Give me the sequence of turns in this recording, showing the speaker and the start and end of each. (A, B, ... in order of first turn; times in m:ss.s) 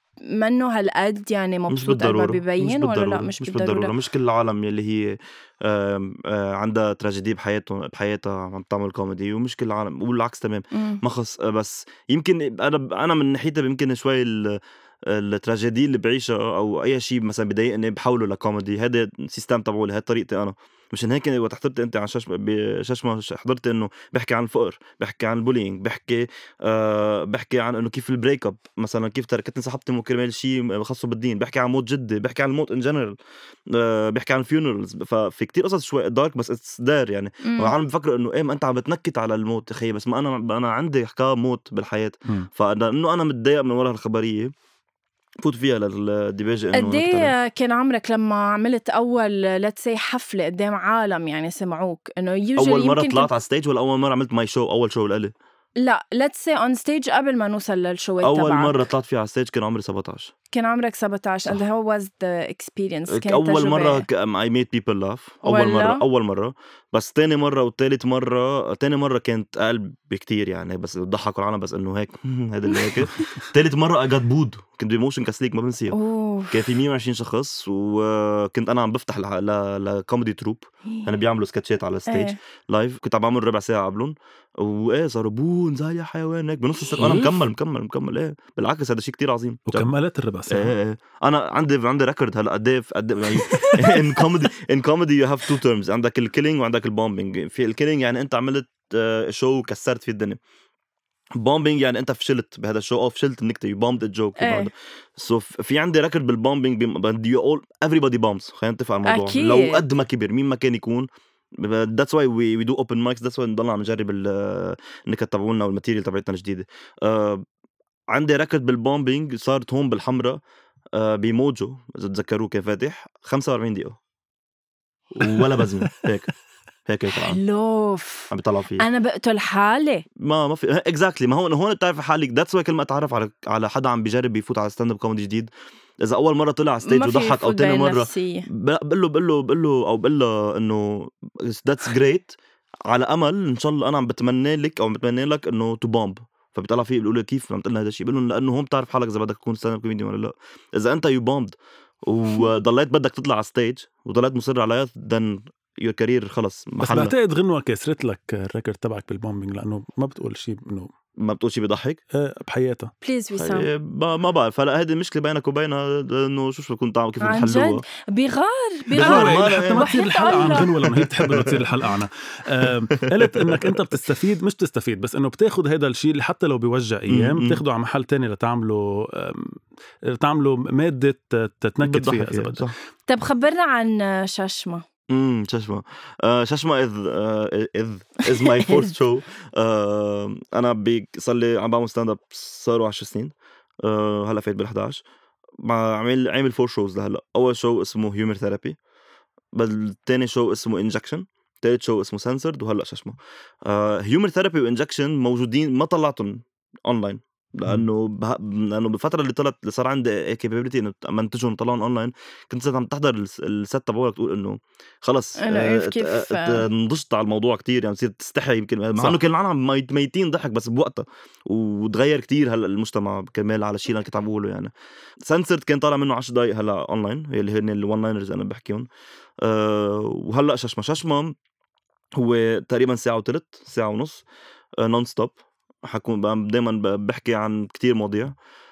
0:00.3-0:03.9 A
0:01.7-0:44.5 B
0:10.7-0:11.0 A
0:37.4-0:37.8 A
0:45.4-0:47.3 B
0:46.7-0:53.3 A
0:52.6-0:55.3 B
0:55.8-0:58.8 A
0:58.2-1:00.3 B
1:00.5-1:04.1 A
1:03.1-1:16.0 B
1:05.4-1:06.0 A
1:12.7-1:13.0 A
1:15.9-1:16.8 A
1:16.5-1:29.9 B
1:22.1-1:22.4 A
1:27.0-1:27.4 C
1:29.7-1:30.7 C
1:30.5-1:40.4 B
1:41.4-1:57.4 B
1:44.4-1:44.7 A
1:49.1-1:49.8 A
1:58.1-2:00.4 B
2:01.0-2:04.0 B
2:05.1-2:06.3 B
2:05.3-2:05.9 C
2:06.9-2:07.4 B
2:07.1-2:10.0 A
2:08.3-2:08.9 B
2:10.2-2:22.3 B
2:16.8-2:18.5 A
2:22.9-2:37.1 B
2:36.8-2:40.9 C
2:41.2-2:42.0 B
2:42.1-2:42.9 C
2:43.0-2:43.7 A
2:43.4-2:47.8 B
2:47.2-2:50.7 A
2:48.9-2:51.9 B
2:49.0-3:02.7 C
2:52.6-2:53.8 B
2:57.1-2:57.6 B
3:01.8-3:02.7 B
3:03.1-3:04.8 A
3:05.1-3:15.0 B
3:08.4-3:08.8 A
3:15.6-3:18.8 B
3:19.5-3:44.7 B
3:35.4-3:36.6 A
3:45.3-3:48.9 B
3:49.4-3:51.3 B
3:52.2-3:54.2 B
3:54.8-3:58.4 B